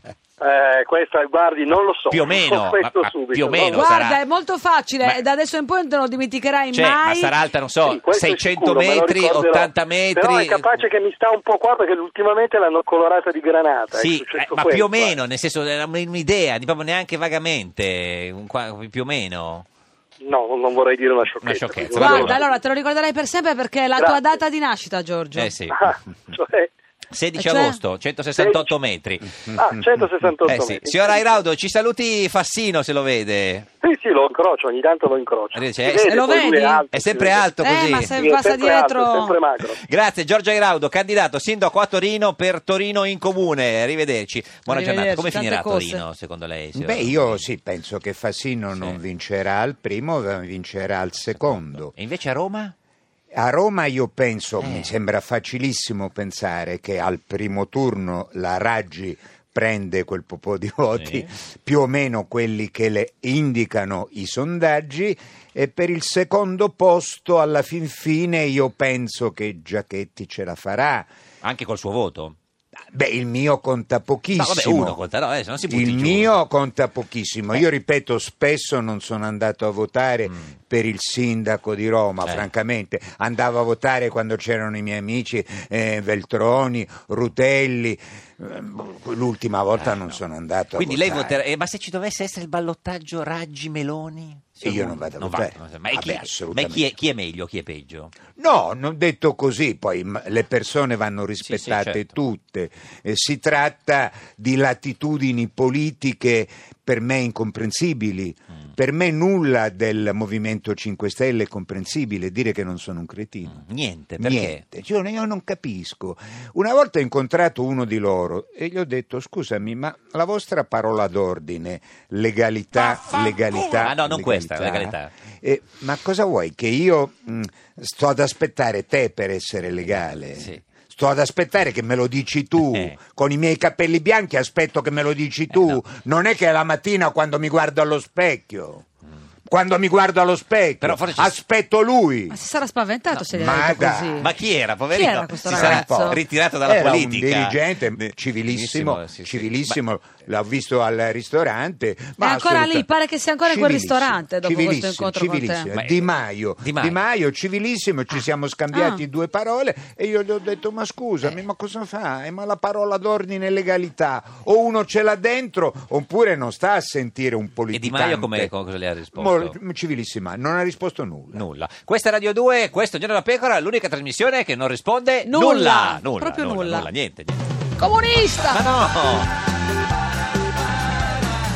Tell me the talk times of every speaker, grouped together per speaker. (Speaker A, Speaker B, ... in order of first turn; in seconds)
Speaker A: 0.4-3.9, 7.8-15.2, 20.2-22.5, 23.9-24.4, 25.7-26.7, 28.4-28.7, 29.5-31.4, 33.8-39.8
Speaker B: 2.1-4.2, 6.7-10.6, 13.9-19.6, 21.4-22.4, 25.3-25.8, 27.1-29.3, 30.5-33.6, 35.5-36.1, 36.9-38.2, 39.7-47.5, 48.7-49.0, 51.3-52.7, 54.6-54.9, 61.0-61.3, 71.4-72.4, 74.3-76.3, 82.2-82.5, 89.7-90.2, 90.7-98.1, 101.4-102.1, 113.5-114.6, 123.8-125.1, 130.2-130.6, 132.7-132.9, 135.5-135.8, 140.8-141.3, 144.2-149.8, 155.7-156.1, 156.6-157.0, 167.7-169.5, 171.3-177.4, 178.5-179.3
Speaker C: 3.7-7.3, 21.9-25.6, 27.3-27.8, 36.0-36.9, 37.6-39.4, 44.7-46.0, 142.3-144.3, 144.8-146.2, 152.2-155.7, 158.7-159.0, 175.2-176.9, 177.8-178.6
Speaker D: 46.7-51.9, 53.3-71.1, 72.9-75.0, 75.7-91.4, 94.6-96.8, 98.3-113.6, 114.2-138.8, 139.5-142.4, 143.3-144.2, 145.4-152.9, 153.4-168.5, 169.1-171.4